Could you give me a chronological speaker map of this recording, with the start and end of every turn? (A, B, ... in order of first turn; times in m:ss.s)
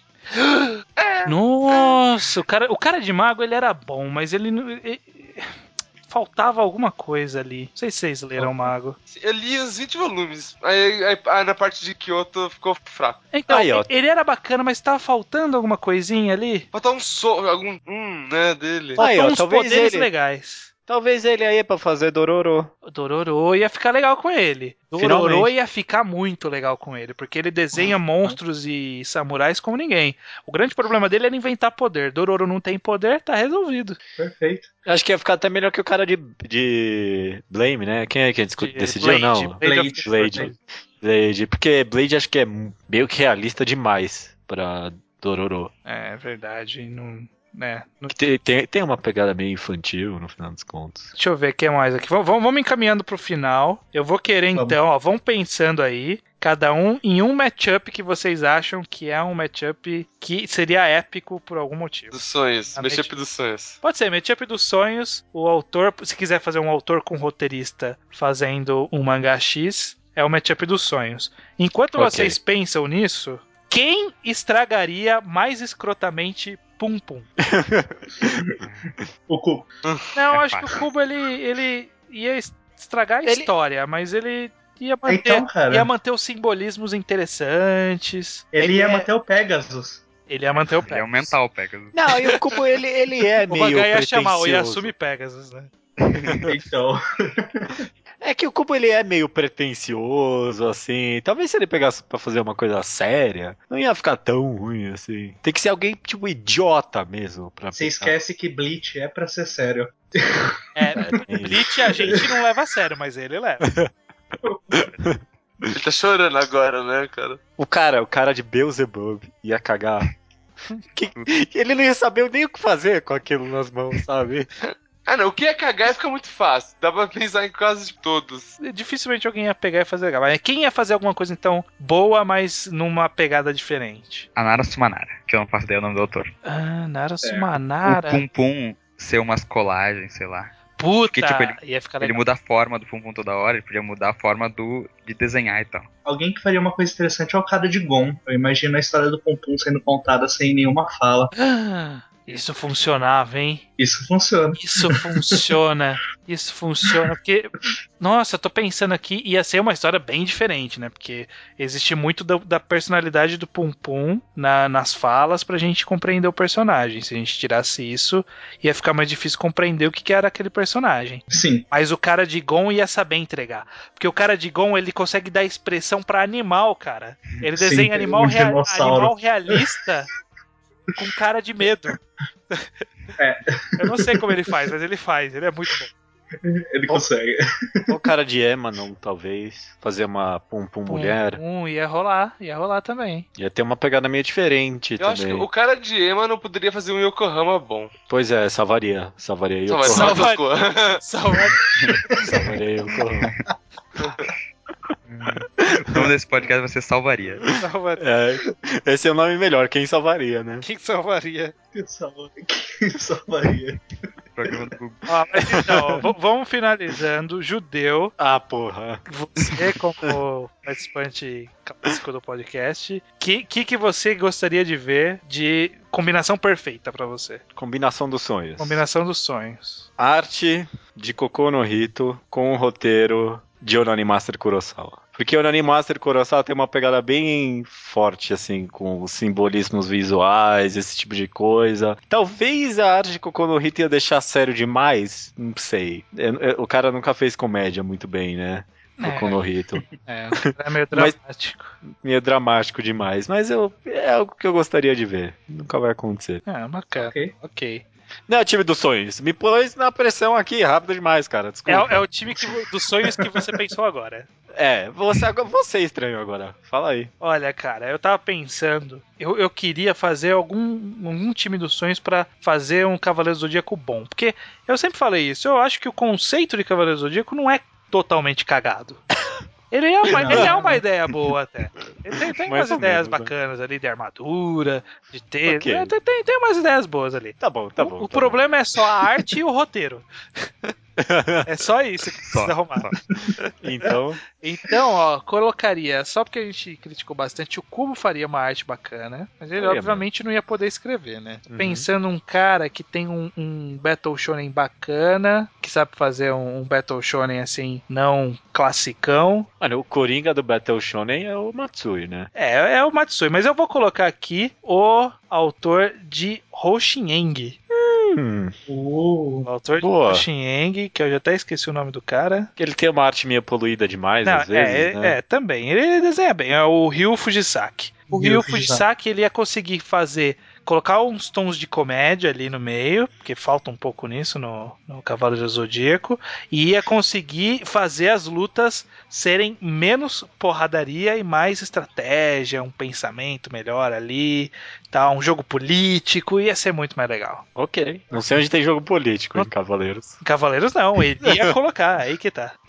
0:00.4-0:09.0 A
0:01.0-0:02.0 B
0:09.1-0:13.2 B
0:13.3-0:16.7 A
0:13.5-0:13.9 C
0:16.7-0:19.0 B
0:19.0-0:20.1 C
0:19.0-0:20.7 A
0:20.9-0:22.7 C
0:22.9-0:34.0 A
0:25.0-0:25.5 C
0:34.2-0:34.7 D
0:34.8-0:45.7 C
0:38.6-0:40.5 A
0:39.6-0:40.5 D
0:45.9-0:48.2 A
0:48.1-0:51.1 C
0:51.2-1:03.1 A
1:02.1-1:03.8 B
1:03.8-1:17.3 A
1:12.0-1:12.4 C
1:17.4-1:18.4 C
1:18.3-1:18.6 D
1:18.6-1:18.9 E
1:19.3-1:19.7 D
1:20.2-1:29.1 A
1:20.3-1:20.7 E
1:23.2-1:23.5 C
1:25.1-1:25.9 D
1:28.5-1:30.0 D
1:30.3-1:31.4 A
1:30.9-1:32.4 E
1:31.9-1:34.9 C
1:33.5-1:35.7 A
1:36.0-1:36.4 E
1:36.5-1:37.9 D
1:38.2-1:48.2 C
1:47.7-1:50.6 D
1:50.8-1:53.7 A
1:50.9-1:52.2 C
1:53.6-1:53.9 C
1:54.4-1:54.8 D
1:54.8-1:55.2 C
1:55.7-1:57.4 B
1:57.6-2:00.1 C
2:00.9-2:04.5 C
2:04.6-2:08.6 B
2:08.6-2:14.3 A
2:14.4-2:16.3 E
2:16.4-2:18.2 A
2:17.2-2:17.5 D
2:17.8-2:20.6 E
2:20.8-2:22.2 A
2:21.1-2:25.9 E
2:26.0-2:31.3 D
2:31.4-2:33.6 A
2:33.8-2:35.4 D
2:34.6-3:00.1 A
2:51.3-2:51.6 D
2:57.4-2:59.6 D
3:01.0-3:02.0 A
3:02.5-3:02.8 A
3:03.2-3:04.0 D
3:03.8-3:05.9 A
3:06.5-3:07.9 D
3:07.9-3:11.4 C
3:10.9-3:13.3 A
3:13.4-3:15.4 C
3:15.0-3:17.9 B
3:18.1-3:20.3 C
3:19.7-3:21.0 B
3:19.8-3:20.4 A
3:21.0-3:21.6 A
3:21.8-3:22.2 E
3:22.2-3:23.3 C
3:25.2-3:27.4 E
3:25.7-3:26.1 C
3:27.6-3:28.1 A
3:28.0-3:30.6 C
3:30.6-3:31.5 A
3:31.7-3:33.8 D
3:34.4-3:35.0 E
3:35.1-3:38.2 A
3:35.5-3:36.0 C
3:38.2-3:40.2 C
3:39.1-3:47.4 A
3:47.6-3:48.8 C
3:48.6-3:49.9 A
3:50.0-4:09.8 C
4:09.0-4:09.4 A
4:10.1-4:11.8 A
4:10.4-4:11.2 C
4:11.9-4:16.4 C
4:16.4-4:17.8 A
4:17.0-4:17.3 D
4:18.3-4:22.0 C
4:21.7-4:24.3 A
4:24.6-4:27.1 C
4:27.2-4:39.0 A
4:39.7-4:50.5 A
4:40.1-4:40.8 D
4:40.2-4:40.8 C
4:42.4-4:43.3 C
4:45.5-4:45.9 C
4:47.4-4:48.4 C
4:51.0-4:51.6 C
4:51.4-4:52.9 A
4:52.3-4:53.0 E
4:53.6-4:54.2 C
4:54.4-5:09.5 A
4:59.6-5:00.1 C
5:01.5-5:01.9 C
5:09.6-5:12.3 C
5:12.4-5:17.6 A
5:17.7-5:18.5 C
5:18.7-5:19.5 D
5:19.4-5:22.5 A
5:19.8-5:20.3 C
5:22.6-5:25.2 C
5:24.2-5:47.4 A
5:28.1-5:28.8 D
5:47.6-5:50.2 C
5:50.2-5:52.6 A
5:51.2-5:51.5 C